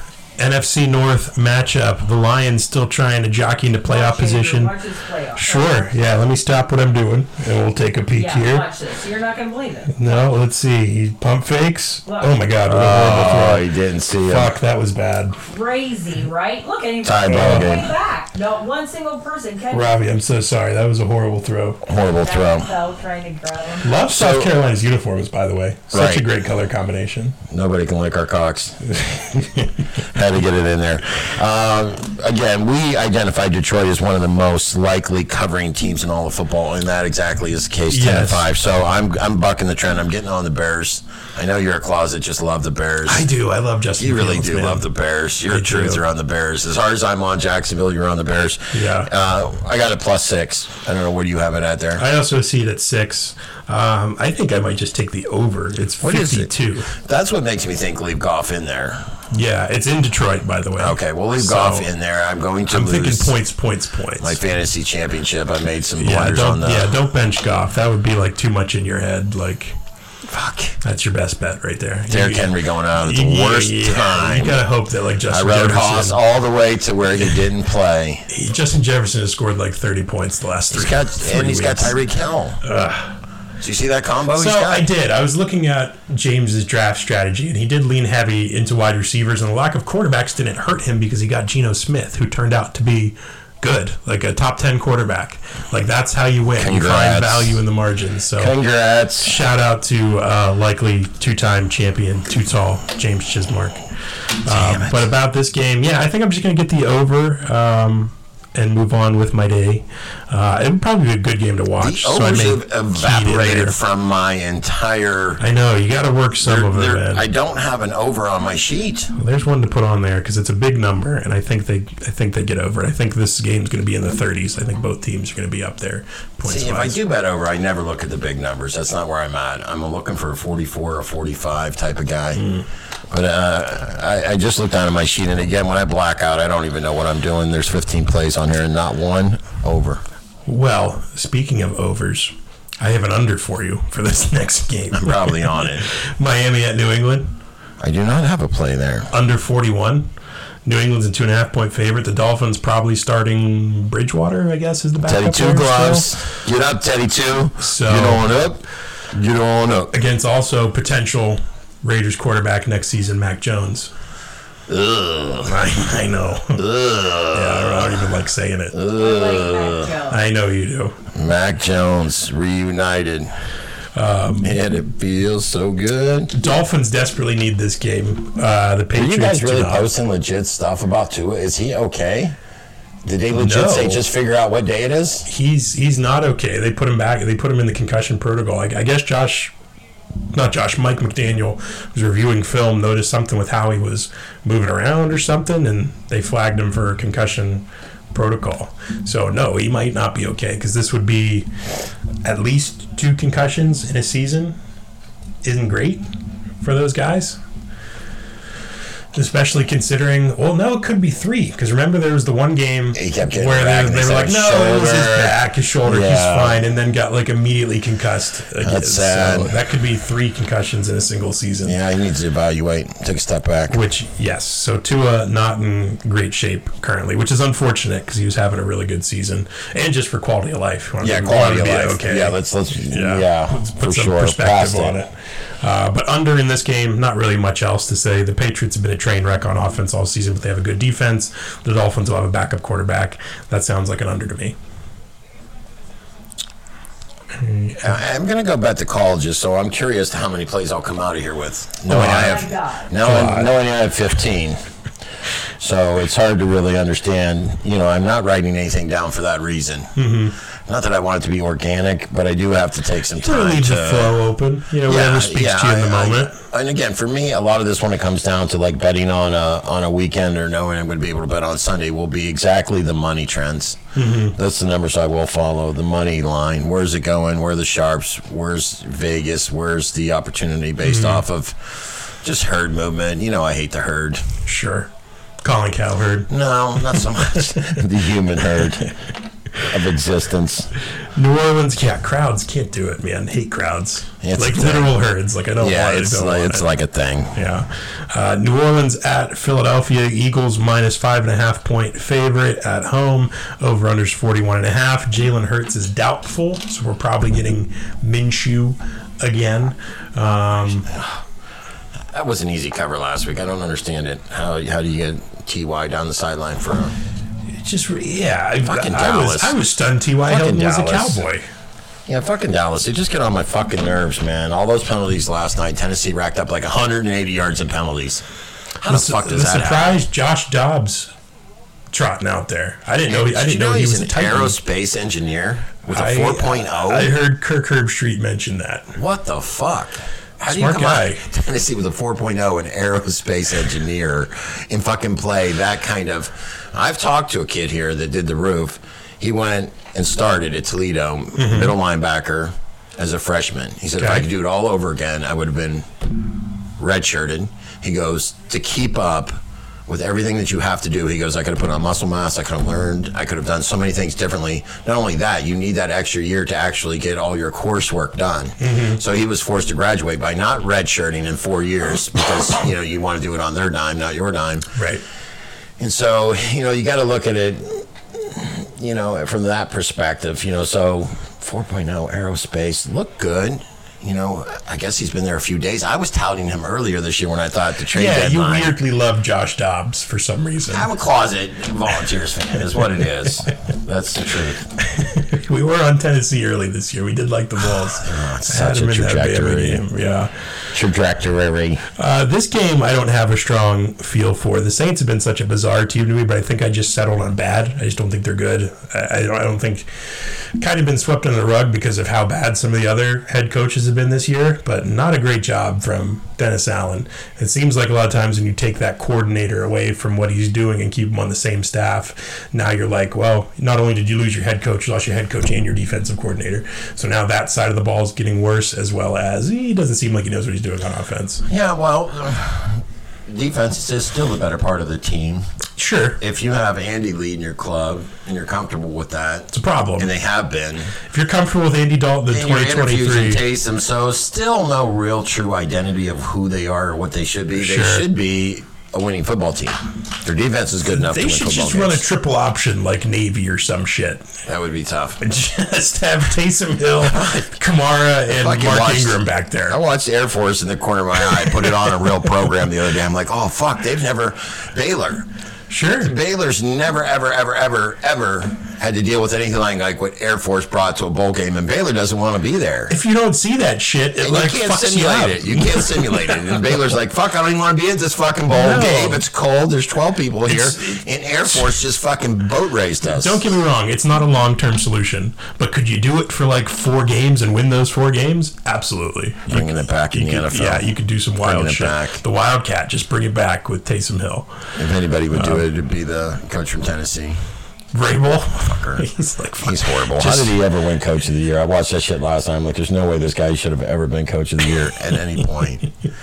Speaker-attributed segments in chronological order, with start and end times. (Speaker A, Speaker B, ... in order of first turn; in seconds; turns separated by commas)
Speaker A: 0.4-4.7, Speaker B: 3.9-5.9, Speaker A: 5.3-8.6, Speaker B: 8.1-10.2, Speaker A: 9.9-13.7, Speaker B: 12.1-12.3, Speaker C: 12.6-14.5, Speaker A: 14.2-15.4, Speaker B: 15.4-19.9, Speaker C: 17.0-17.9, Speaker A: 17.2-17.7, Speaker A: 19.7-21.8, Speaker C: 21.8-22.7, Speaker B: 22.2-24.0, Speaker A: 23.8-27.4, Speaker C: 24.1-24.5, Speaker C: 25.9-26.2, Speaker C: 27.5-43.3, Speaker A: 29.1-29.6, Speaker A: 37.9-38.5, Speaker A: 43.1-44.9, Speaker C: 44.0-52.0, Speaker A: 45.5-46.0, Speaker A: 48.7-49.1, Speaker A: 52.0-56.9, Speaker C: 56.0-59.1, Speaker A: 59.3-61.9, Speaker C: 60.8-63.4, Speaker A: 62.7-64.4, Speaker C: 64.2-66.9, Speaker A: 66.0-69.8, Speaker C: 70.2-70.8, Speaker A: 70.8-76.2, Speaker C: 72.1-74.6, Speaker C: 75.3-78.3, Speaker A: 78.3-82.0, Speaker C: 80.7-82.6, Speaker A: 82.6-83.1, Speaker C: 83.6-84.9, Speaker A: 84.3-98.5, Speaker C: 96.6-97.6, Speaker C: 98.4-99.3, Speaker A: 99.2-103.8, Speaker A: 104.4-113.8, Speaker C: 104.5-105.1, Speaker C: 111.8-115.4, Speaker A: 115.4-117.2, Speaker C: 116.4-119.1, Speaker A: 119.1-127.0, Speaker C: 126.4-132.5, Speaker A: 132.3-132.6, Speaker C: 133.1-140.0, Speaker A: 140.4-147.3, Speaker C: 144.9-145.9, Speaker C: 147.8-149.1, Speaker A: 149.1-150.1, Speaker A: 150.6-156.2, Speaker C: 155.0-159.9, Speaker A: 157.6-158.3, Speaker A: 159.9-163.9, Speaker C: 164.7-165.5, Speaker A: 165.4-166.6, Speaker C: 166.5-168.0, Speaker A: 167.3-168.8, Speaker C: 168.7-169.9, Speaker B: 168.9-170.2, Speaker A: 170.1-171.0, Speaker C: 171.1-173.3, Speaker A: 173.9-174.5, Speaker C: 174.4-176.3, Speaker A: 176.3-179.9, Speaker C: 178.9-182.3, Speaker C: 183.0-185.2, Speaker A: 183.3-184.0, Speaker A: 185.2-189.5, Speaker A: 190.3-201.5, Speaker A: 202.2-204.6, Speaker A: 205.4-206.1, Speaker A: 206.6-207.4, Speaker A: 209.1-221.8, Speaker C: 212.9-216.6, Speaker C: 218.6-219.6, Speaker C: 221.6-223.8, Speaker A: 223.7-244.6, Speaker C: 231.0-235.0, Speaker A: 247.4-247.9, Speaker C: 247.8-254.6, Speaker A: 251.9-253.5, Speaker B: 252.0-252.9, Speaker C: 255.6-259.9, Speaker A: 259.9-260.4, Speaker C: 260.6-264.2, Speaker A: 263.2-266.4, Speaker C: 264.9-284.2, Speaker A: 273.9-274.4, Speaker A: 280.8-281.2, Speaker A: 284.4-284.9, Speaker A: 285.4-286.3, Speaker C: 286.3-288.9, Speaker A: 286.9-287.6, Speaker C: 289.6-290.7, Speaker A: 291.1-296.6, Speaker C: 294.2-294.9, Speaker C: 295.6-297.4, Speaker A: 297.3-310.9, Speaker C: 310.9-311.2, Speaker C: 312.1-316.9, Speaker A: 317.5-321.4, Speaker C: 318.6-319.6, Speaker C: 320.2-321.2, Speaker C: 322.1-328.2, Speaker C: 328.8-330.0, Speaker A: 328.9-331.1, Speaker A: 331.9-334.6, Speaker C: 333.1-337.1, Speaker A: 335.9-338.9, Speaker C: 338.9-355.9, Speaker A: 340.4-341.2, Speaker A: 351.4-351.7, Speaker A: 354.0-354.2, Speaker C: 356.8-374.7, Speaker A: 368.6-369.0, Speaker A: 374.7-375.0, Speaker C: 375.8-388.8, Speaker A: 387.9-390.9, Speaker C: 390.7-394.6, Speaker A: 394.9-400.3, Speaker C: 397.9-399.8, Speaker C: 400.7-401.8, Speaker A: 401.9-431.4, Speaker C: 431.4-435.5, Speaker A: 435.8-436.2, Speaker C: 436.2-440.9, Speaker A: 439.5-440.1, Speaker A: 441.1-443.4, Speaker C: 442.3-452.0, Speaker A: 447.6-448.1, Speaker A: 450.9-454.3, Speaker C: 454.4-455.2, Speaker A: 455.2-459.8, Speaker C: 457.0-457.5, Speaker C: 458.3-465.3, Speaker A: 465.7-466.1, Speaker C: 466.0-472.9, Speaker A: 472.9-476.6, Speaker C: 474.2-483.4, Speaker A: 478.5-479.2, Speaker A: 480.5-481.7, Speaker A: 483.0-494.5, Speaker C: 489.5-492.2, Speaker C: 494.8-497.4, Speaker A: 495.3-495.6, Speaker A: 497.9-500.5, Speaker C: 498.6-499.1, Speaker C: 499.6-505.9